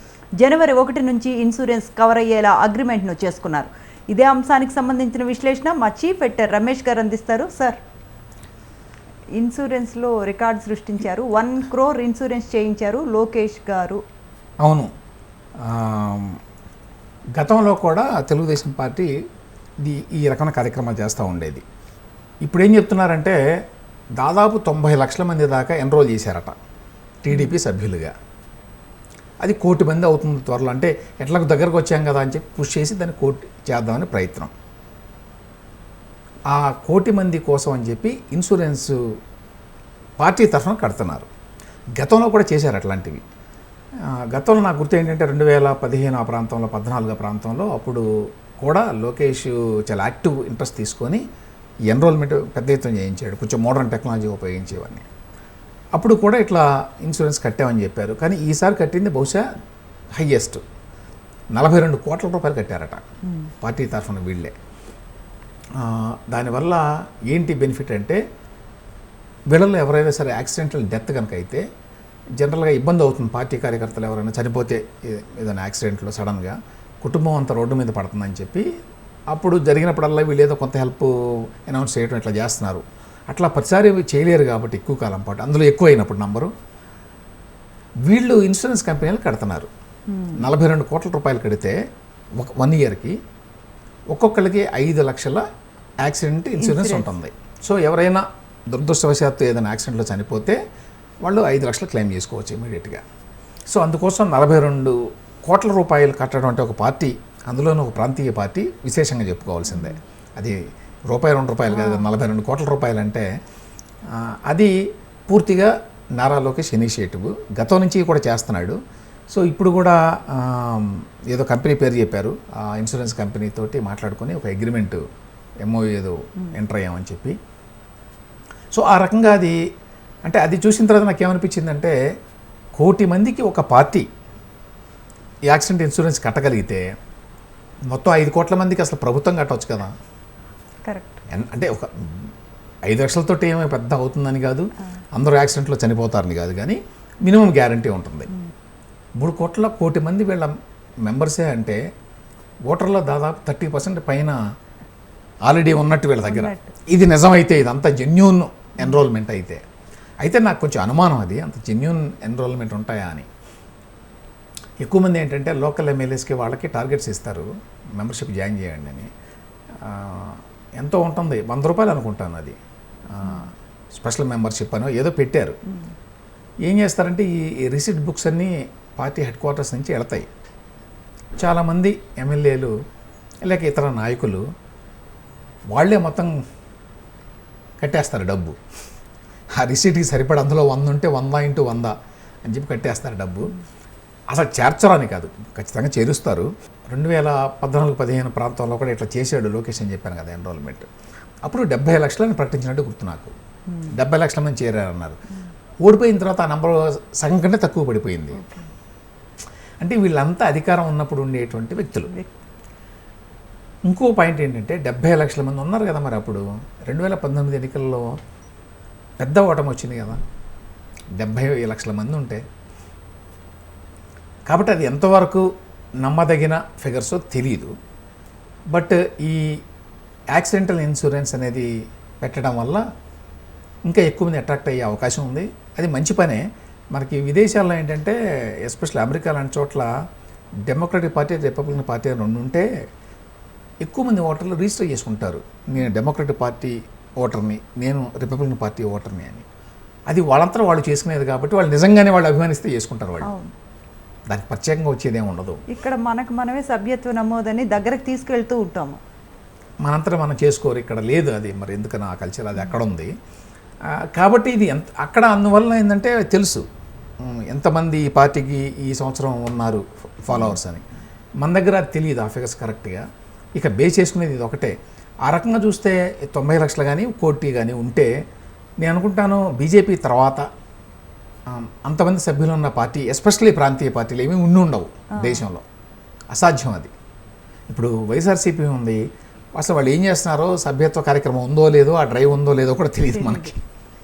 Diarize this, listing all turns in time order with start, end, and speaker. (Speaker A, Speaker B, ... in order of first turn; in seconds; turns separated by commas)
Speaker A: 0.4-7.8, Speaker A: 9.4-14.0, Speaker B: 14.6-14.9, Speaker B: 15.6-16.4, Speaker B: 17.4-19.1, Speaker B: 19.8-21.6, Speaker B: 22.4-23.4, Speaker B: 24.2-26.5, Speaker B: 27.2-28.1, Speaker B: 29.4-34.5, Speaker B: 36.5-39.0, Speaker B: 40.2-41.3, Speaker B: 42.0-43.2, Speaker B: 44.1-48.0, Speaker B: 48.6-51.2, Speaker B: 51.9-55.1, Speaker B: 55.9-59.4, Speaker B: 60.1-60.6, Speaker B: 61.5-63.0, Speaker B: 63.6-64.5, Speaker B: 65.7-68.2, Speaker B: 69.5-71.6, Speaker B: 72.4-78.6, Speaker B: 79.3-86.5, Speaker B: 88.1-89.7, Speaker A: 90.1-90.5, Speaker B: 90.3-91.7, Speaker B: 92.4-93.2, Speaker B: 94.1-95.4, Speaker B: 96.0-100.6, Speaker A: 96.6-97.1, Speaker B: 101.2-103.0, Speaker B: 103.7-110.6, Speaker B: 111.1-113.2, Speaker A: 111.7-112.0, Speaker B: 114.1-114.7, Speaker B: 115.3-118.8, Speaker B: 119.3-125.0, Speaker B: 125.6-127.3, Speaker B: 128.7-129.6, Speaker B: 130.2-131.9, Speaker B: 132.8-134.1, Speaker B: 135.5-136.8, Speaker B: 137.9-139.9, Speaker A: 140.8-141.2, Speaker B: 141.3-142.3, Speaker B: 142.8-148.3, Speaker B: 149.2-150.5, Speaker B: 151.0-151.8, Speaker B: 152.7-154.4, Speaker B: 155.4-159.6, Speaker A: 156.2-156.7, Speaker B: 160.2-163.3, Speaker B: 164.8-169.1, Speaker B: 169.8-172.5, Speaker B: 173.1-175.6, Speaker B: 176.6-180.3, Speaker B: 181.4-182.7, Speaker B: 183.4-184.4, Speaker B: 185.7-186.3, Speaker B: 187.8-188.6, Speaker B: 189.5-191.9, Speaker B: 192.5-193.5, Speaker B: 194.3-200.9, Speaker B: 201.4-203.3, Speaker B: 203.9-205.2, Speaker B: 205.8-208.4, Speaker A: 208.4-208.7, Speaker B: 209.8-212.1, Speaker B: 213.8-218.2, Speaker B: 219.2-220.2, Speaker B: 221.2-222.4, Speaker B: 224.5-225.4, Speaker B: 226.0-227.7, Speaker B: 228.7-229.5, Speaker B: 230.3-231.7, Speaker B: 232.2-232.8, Speaker B: 233.8-236.4, Speaker B: 236.9-239.9, Speaker B: 240.7-242.7, Speaker B: 243.8-249.4, Speaker B: 250.1-253.3, Speaker A: 253.2-253.5, Speaker B: 254.3-255.6, Speaker A: 255.7-259.0, Speaker B: 259.8-263.1, Speaker B: 264.0-266.6, Speaker B: 267.2-270.8, Speaker B: 271.4-273.0, Speaker B: 273.5-278.1, Speaker B: 278.8-280.5, Speaker B: 281.5-285.6, Speaker A: 285.2-285.5, Speaker B: 286.3-286.9, Speaker B: 287.7-289.0, Speaker B: 289.5-293.6, Speaker A: 293.1-293.5